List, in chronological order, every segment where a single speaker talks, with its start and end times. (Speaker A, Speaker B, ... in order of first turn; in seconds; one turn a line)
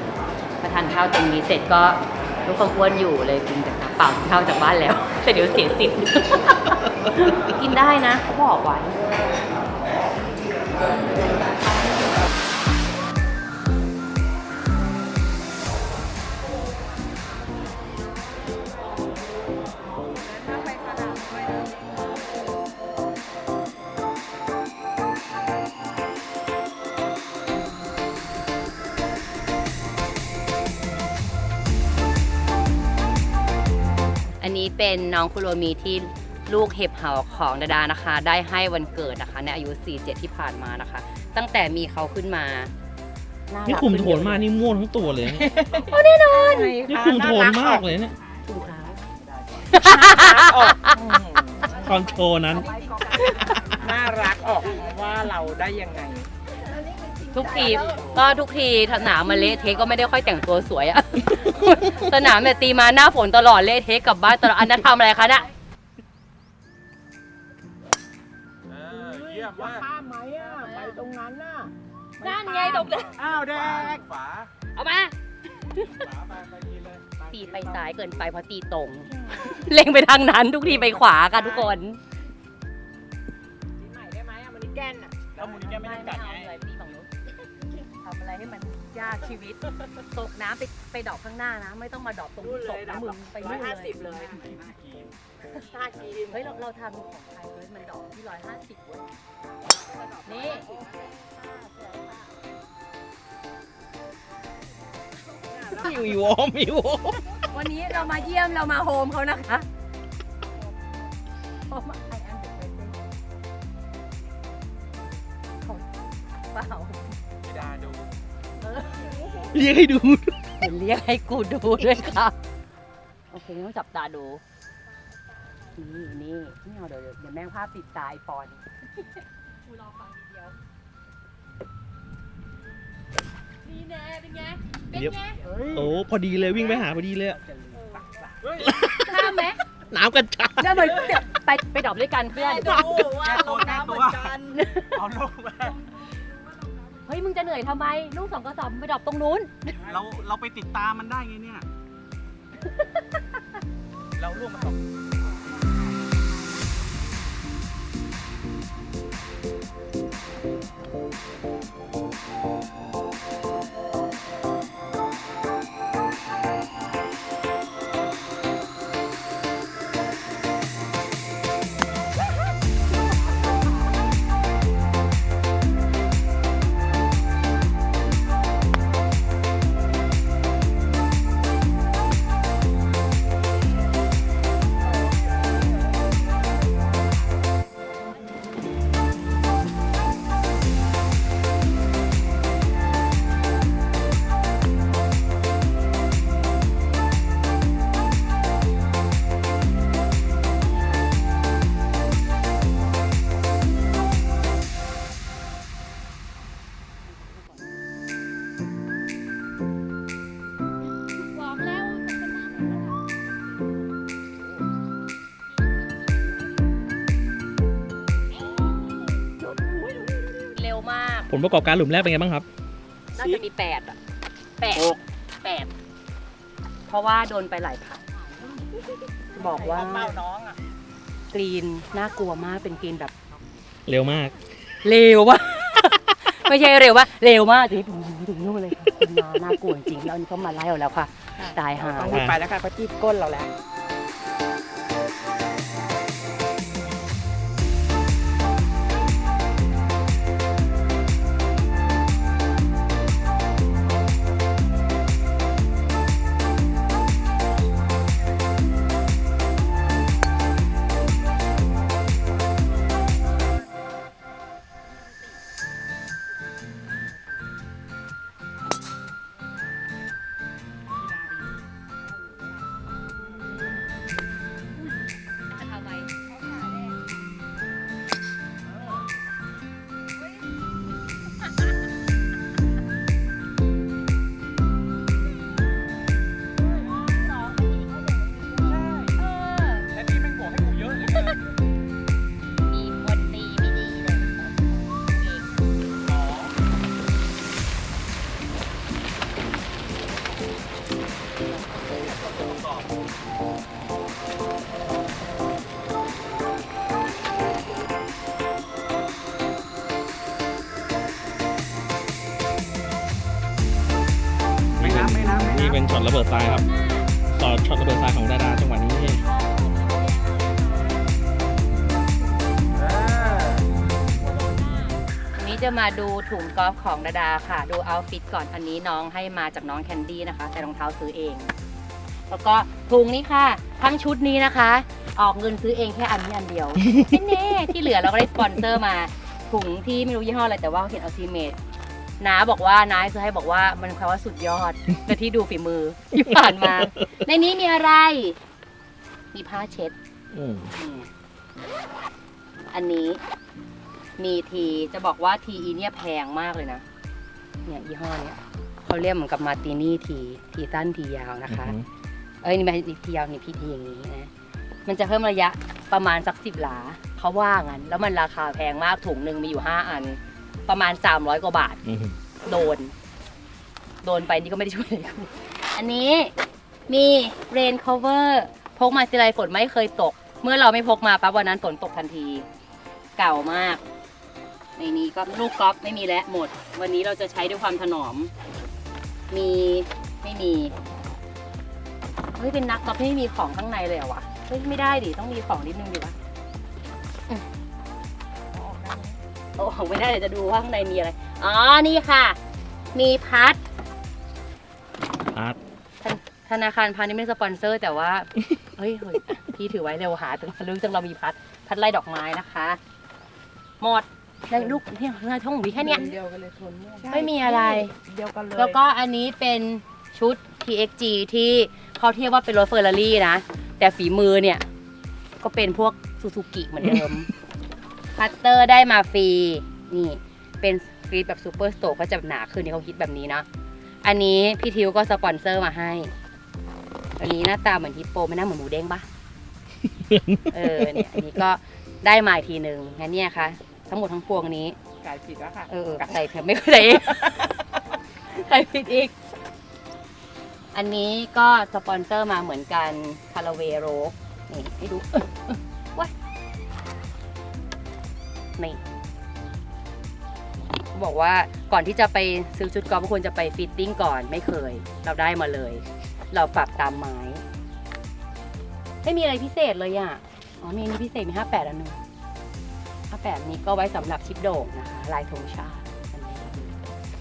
Speaker A: 0.6-9.0
Speaker A: 34.4-42.7
Speaker A: 43.5-44.4
Speaker B: 43.7-45.5
Speaker C: 45.4-47.8
Speaker A: 45.8-46.8
Speaker B: 46.8-48.1
Speaker D: 48.1-48.4
Speaker A: 48.5-48.8
Speaker A: 49.7-51.0
Speaker C: 49.8-52.0
Speaker B: 51.7-53.7
Speaker C: 52.5-56.3
Speaker C: 57.1-57.8
Speaker A: 57.3-65.5
Speaker D: 68.8-69.7
Speaker C: 68.9-71.7
Speaker A: 70.4-71.0
Speaker A: 72.2-73.2
Speaker C: 72.3-72.9
Speaker D: 73.2-74.5
Speaker C: 73.4-73.9
Speaker A: 74.8-76.1
Speaker A: 77.2-82.0
Speaker C: 83.8-85.5
Speaker D: 85.3-86.5
Speaker A: 85.6-87.1
Speaker A: 88.0-94.4
Speaker C: 92.9-94.3
Speaker D: 94.4-95.1
Speaker C: 95.7-96.3
Speaker A: 96.3-99.1
Speaker A: 100.2-100.7
Speaker C: 100.7-102.0
Speaker B: 105.7-107.2
Speaker A: 107.4-109.7
Speaker A: 111.7-112.9
Speaker A: 116.5-117.2
Speaker D: 117.5-117.9
Speaker A: 118.7-118.9
Speaker B: 119.5-120.4
Speaker A: 120.6-122.3
Speaker A: 123.3-124.4
Speaker A: 125.7-128.6
Speaker A: 129.9-130.3
Speaker A: 133.7-135.4
Speaker C: 135.5-135.8
Speaker B: 135.7-137.4
Speaker C: 137.5-138.3
Speaker B: 138.6-139.4
Speaker A: 139.0-139.6
Speaker B: 139.9-141.1
Speaker A: 140.6-143.4
Speaker C: 142.4-144.6
Speaker D: 143.1-144.4
Speaker A: 144.5-144.9
Speaker D: 144.9-145.8
Speaker A: 147.1-149.8
Speaker D: 149.8-151.7
Speaker D: 154.2-154.5
Speaker A: 211.2-212.9
Speaker A: 220.5-221.3
Speaker B: 221.3-222.5
Speaker A: 223.2-224.0
Speaker A: 224.6-225.7
Speaker A: 226.9-228.1
Speaker A: 229.3-230.2
Speaker C: 229.6-230.6
Speaker A: 231.3-233.1
Speaker B: 233.9-234.4
Speaker A: 234.8-242.2
Speaker C: 241.9-243.5
Speaker B: 242.1-242.4
Speaker A: 275.5-276.1
Speaker A: 289.2-289.9
Speaker D: 290.3-290.7
Speaker A: 291.1-291.4
Speaker A: 292.7-295.5
Speaker B: 314.8-316.7
Speaker D: 314.8-315.8
Speaker A: 316.5-317.1
Speaker B: 317.3-319.2
Speaker A: 320.0-320.4
Speaker A: 325.4-331.5
Speaker A: 332.3-341.6
Speaker A: 342.2-348.4
Speaker A: 349.3-349.9
Speaker B: 350.3-350.7
Speaker A: 350.8-351.1
Speaker A: 352.7-353.2
Speaker A: 354.2-356.8
Speaker A: 357.7-361.8
Speaker B: 361.5-361.9
Speaker A: 362.4-364.3
Speaker A: 364.9-371.8
Speaker B: 371.9-372.2
Speaker A: 372.4-372.9
Speaker A: 374.0-376.3
Speaker A: 376.9-382.5
Speaker A: 383.2-383.8
Speaker A: 384.8-388.3
Speaker A: 389.3-390.8
Speaker A: 392.4-396.1
Speaker C: 398.5-399.2
Speaker A: 399.6-402.4
Speaker A: 402.9-403.6
Speaker A: 406.0-412.8
Speaker A: 413.8-416.1
Speaker C: 415.8-418.8
Speaker A: 417.1-417.9
Speaker A: 418.5-424.7
Speaker A: 425.4-427.3
Speaker A: 428.1-433.5
Speaker A: 434.0-436.1
Speaker A: 437.2-439.1
Speaker B: 439.9-441.0
Speaker A: 440.5-444.8
Speaker C: 445.0-445.7
Speaker A: 445.7-447.5
Speaker A: 448.3-449.1
Speaker A: 450.7-456.1
Speaker A: 460.9-467.4
Speaker A: 469.0-472.0
Speaker A: 473.1-476.8